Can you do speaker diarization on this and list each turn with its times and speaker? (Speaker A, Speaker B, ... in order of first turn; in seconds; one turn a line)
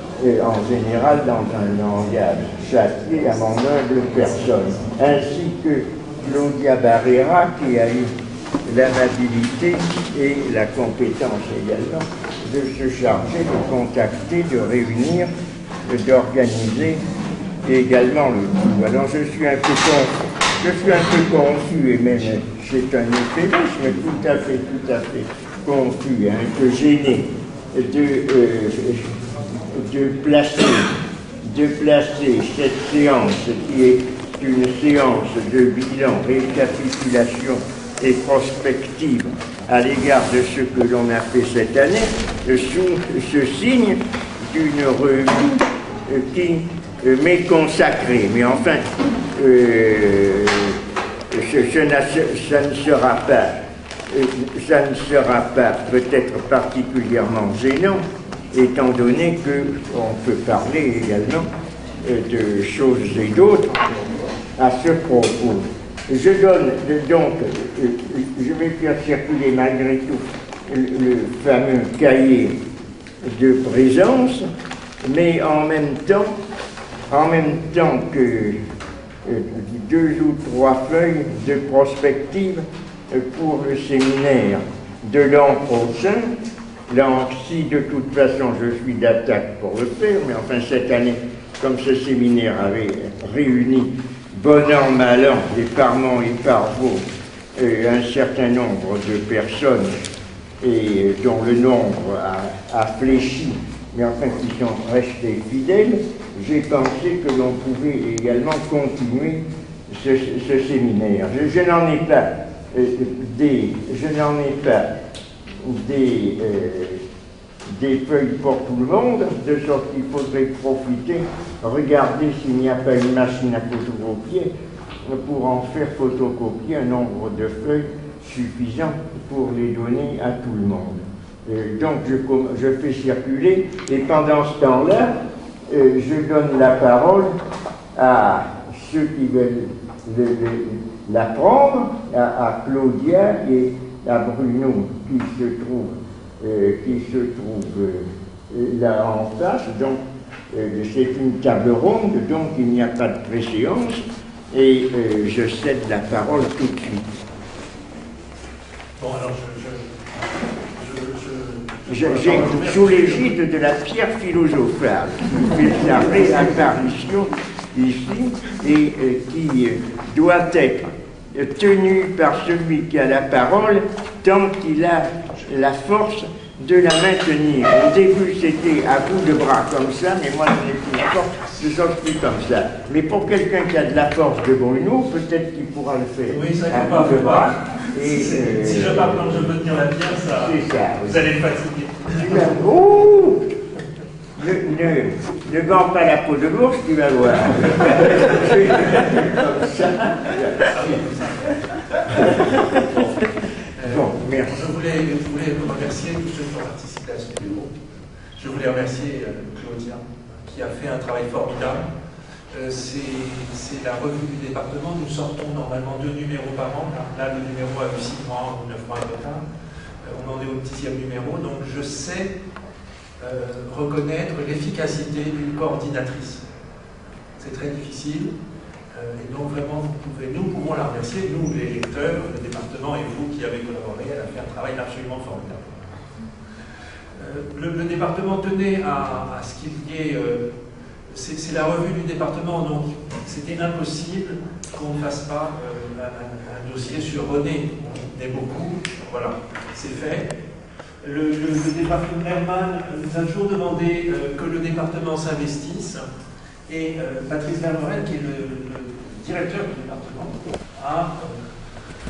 Speaker A: 0.2-8.1
Speaker A: 8.6-15.3
Speaker A: 15.8-17.0
Speaker A: 17.6-30.9
Speaker A: 31.4-50.8
Speaker A: 51.3-53.5
Speaker A: 54.1-61.5
Speaker A: 62.0-63.8
Speaker A: 64.5-72.6
Speaker A: 73.2-74.5
Speaker A: 75.0-76.3
Speaker A: 77.1-78.6
Speaker A: 79.2-86.3
Speaker A: 86.9-97.0
Speaker A: 97.5-100.0
Speaker A: 100.6-114.9
Speaker A: 115.6-117.0
Speaker A: 117.7-124.5
Speaker A: 125.0-135.1
Speaker A: 135.7-137.3
Speaker A: 137.9-150.0
Speaker A: 150.5-157.1
Speaker B: 159.0-159.9
Speaker B: 160.8-163.2
Speaker A: 161.9-189.5
Speaker B: 186.3-192.4
Speaker A: 190.3-191.3
Speaker A: 192.1-193.5
Speaker A: 194.4-200.8
Speaker B: 200.7-203.0
Speaker A: 202.2-203.1
Speaker B: 203.8-207.7
Speaker A: 203.8-204.7
Speaker B: 208.4-211.9
Speaker B: 212.5-219.4
Speaker B: 220.0-222.3
Speaker B: 223.2-226.4
Speaker B: 227.4-228.3
Speaker B: 228.9-235.8
Speaker B: 237.1-240.4
Speaker B: 241.1-250.3
Speaker B: 251.0-256.0
Speaker B: 256.7-261.4